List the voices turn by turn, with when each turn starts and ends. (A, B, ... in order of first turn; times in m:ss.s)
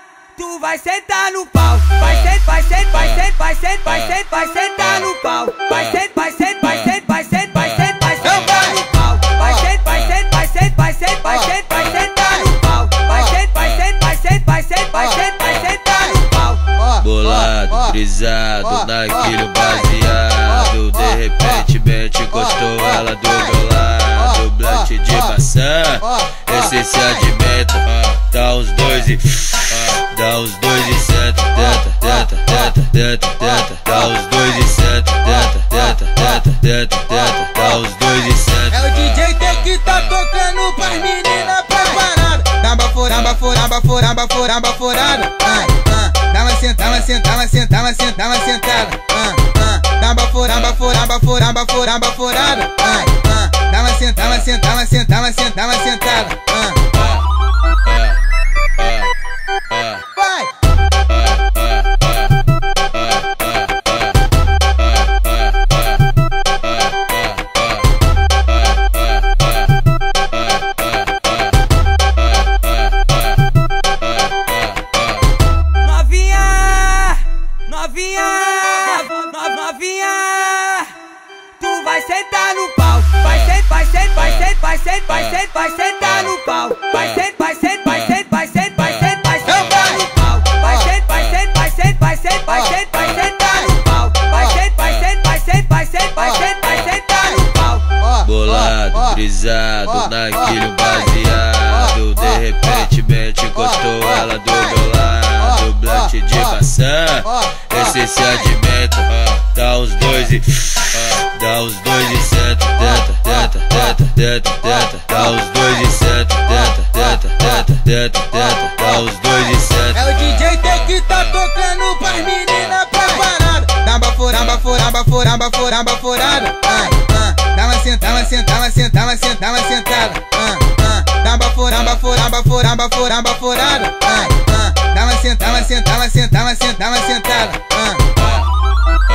0:00.4-0:16.7 A
0:16.9-0:40.1 B
0:38.8-0:57.0 C
1:00.2-1:00.5 C
1:15.8-1:21.0 A
1:21.6-1:38.0 A
1:38.1-2:00.5 B
2:00.0-2:18.2 C